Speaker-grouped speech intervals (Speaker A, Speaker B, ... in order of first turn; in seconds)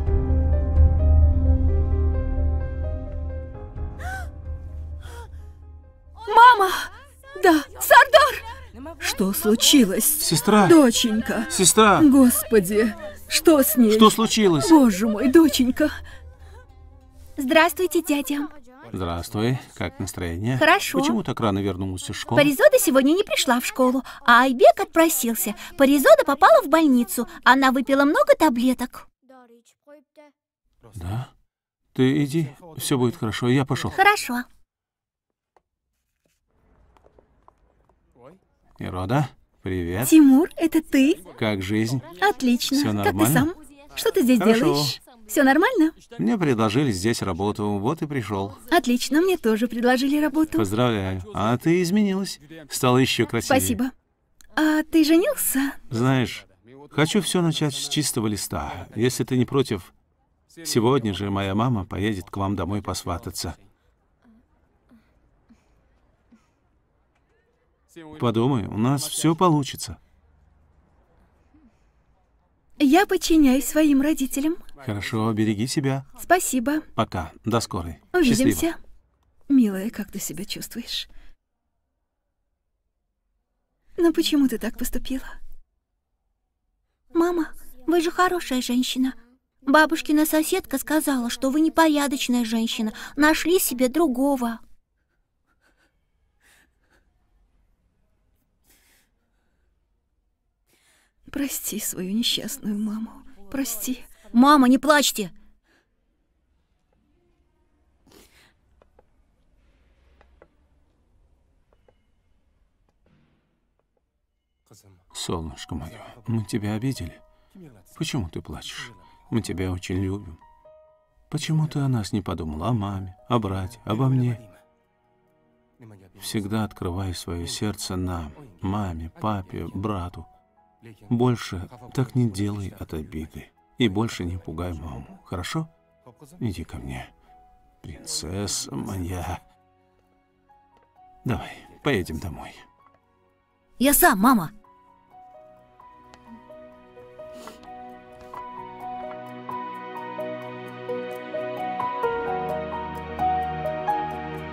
Speaker A: 6.2-8.5, 9.0-15.9, 17.4-18.5, 20.6-20.9, 22.4-23.6, 40.0-41.2, 42.2-46.0, 48.7-50.7, 53.5-53.9, 54.5-55.8, 72.8-74.6, 76.2-76.9, 78.1-78.8, 79.5-81.1, 84.0-85.4, 87.1-89.2, 101.3-104.1
Speaker B: 10.2-10.8, 11.5-12.1, 13.9-14.8, 18.9-22.5, 30.9-31.3, 31.9-34.0, 38.8-40.1, 41.3-42.2, 42.7-43.5, 44.4-45.0, 46.2-48.6, 50.5-53.8, 55.9-59.9, 60.6-63.6, 68.1-70.0, 74.8-76.1, 77.0-78.7, 115.1-117.2, 117.9-120.4, 121.3-124.4, 126.2-130.3, 131.1-135.7, 136.4-137.1, 137.8-139.4, 141.2-142.7
Speaker C: 20.6-21.1, 22.3-29.0, 33.9-34.5, 89.7-94.6, 104.3-105.3, 143.8-144.5